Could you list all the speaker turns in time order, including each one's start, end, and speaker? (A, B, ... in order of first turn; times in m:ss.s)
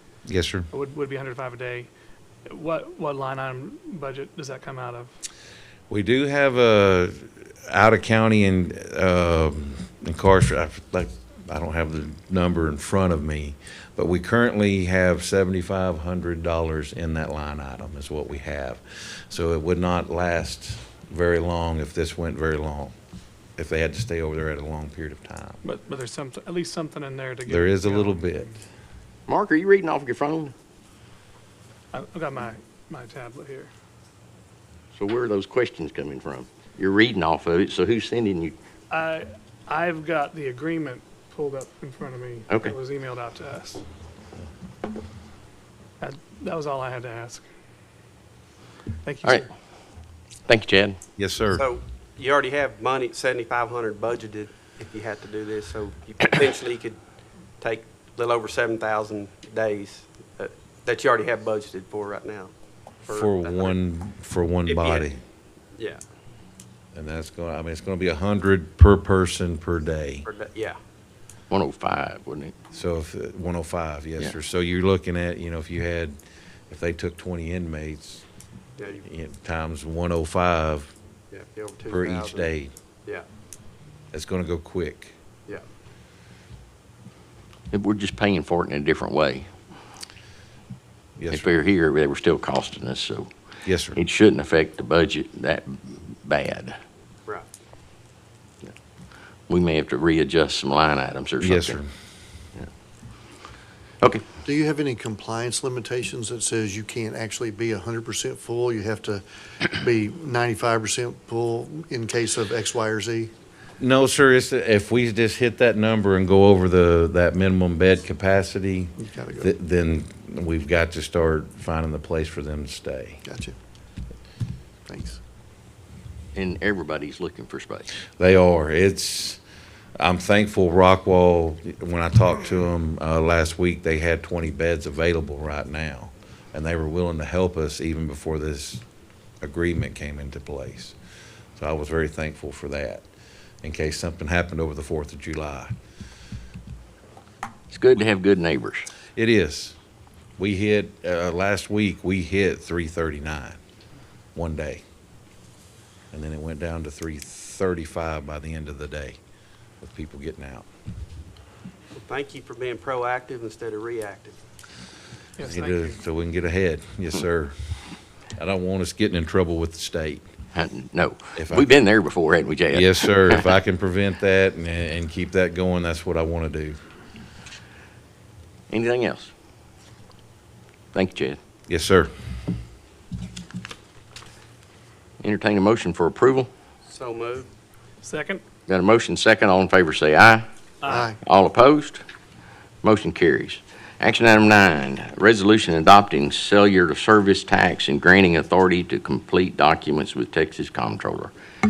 0:00.3-0:00.7 A
0:00.7-0:01.9 B
0:02.5-0:05.2 B
0:05.9-0:22.9 A
0:23.6-0:25.6 A
0:25.6-0:28.3 B
0:27.5-0:28.6 A
0:29.3-0:30.5 C
0:31.9-0:33.7 B
0:35.0-0:38.6 C
0:38.9-0:43.8 B
0:42.5-0:42.8 C
0:46.0-0:47.4 B
0:49.0-0:49.5 B
0:50.5-0:51.0 C
0:51.2-0:51.6 A
0:51.5-0:57.0 D
0:57.6-1:02.5 D
1:03.0-1:03.8 D
1:03.1-1:05.2 A
1:04.7-1:05.1 D
1:05.8-1:06.0 D
1:06.9-1:10.3 A
1:10.3-1:10.8 D
1:11.5-1:12.6 C
1:12.7-1:16.2 A
1:16.7-1:18.2 A
1:18.8-1:19.1 D
1:19.0-1:20.9 A
1:21.3-1:22.5 D
1:21.9-1:22.7 A
1:24.1-1:25.2 A
1:27.7-1:29.5 C
1:31.2-1:31.5 A
1:31.3-1:33.3 C
1:33.6-1:34.0 A
1:34.0-1:36.8 C
1:39.5-1:41.8 C
1:41.4-1:41.9 A
1:44.4-1:53.3 E
1:53.8-2:03.2 A
1:59.0-1:59.5 E
2:03.3-2:03.6 E
2:04.9-2:05.2 E
2:06.4-2:08.0 C
2:08.2-2:09.4 A
2:10.0-2:18.8 A
2:19.4-2:21.0 A
2:21.6-2:23.0 A
2:23.6-2:25.7 A
2:27.7-2:28.9 C
2:29.2-2:29.8 A
2:30.4-2:33.6 A
2:34.4-2:34.8 A
2:36.1-2:39.2 A
2:39.8-2:40.7 A
2:42.0-2:44.4 D
2:45.4-2:46.0 B
2:45.4-2:47.5 A
2:48.4-2:50.2 A
2:50.6-2:53.5 C
2:51.4-2:51.7 A
2:52.7-2:56.8 A
2:58.7-2:59.3 C
3:00.9-3:01.4 C
3:01.7-3:02.1 A
3:05.2-3:06.5 C
3:06.9-3:07.5 D
3:08.0-3:08.4 B
3:08.7-3:10.5 C
3:10.8-3:11.1 B
3:10.9-3:11.2 E
3:11.2-3:12.0 C
3:12.8-3:21.3 C